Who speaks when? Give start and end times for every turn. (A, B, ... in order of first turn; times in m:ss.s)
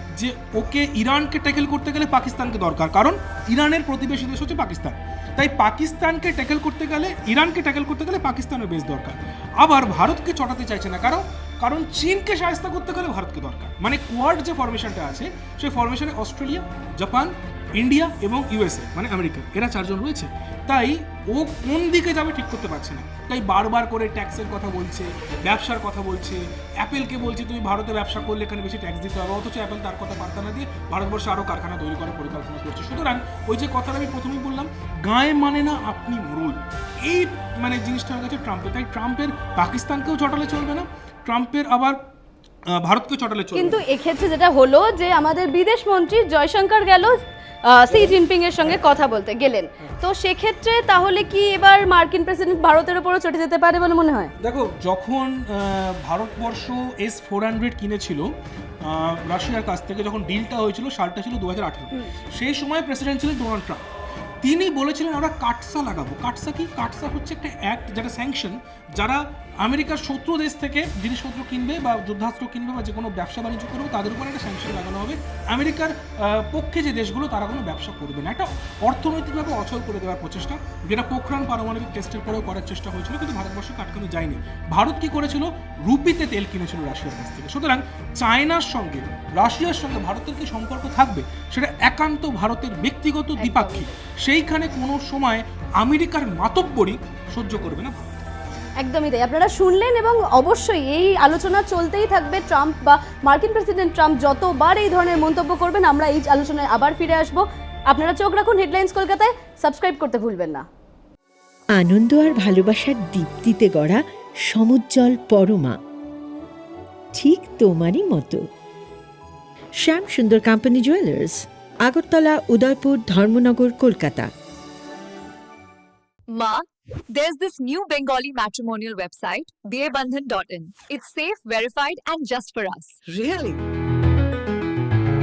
0:00.2-0:42.0 A
0:42.7-0:43.8 A
0:43.5-0:54.3 B
0:47.9-0:48.2 A
0:54.4-0:58.3 A
0:58.8-1:03.8 A
1:04.4-1:38.1 A
1:33.4-1:33.9 B
1:38.8-1:50.6 B
1:51.7-1:55.8 C
1:57.1-1:58.4 C
1:59.8-2:04.3 C
2:06.3-2:13.0 D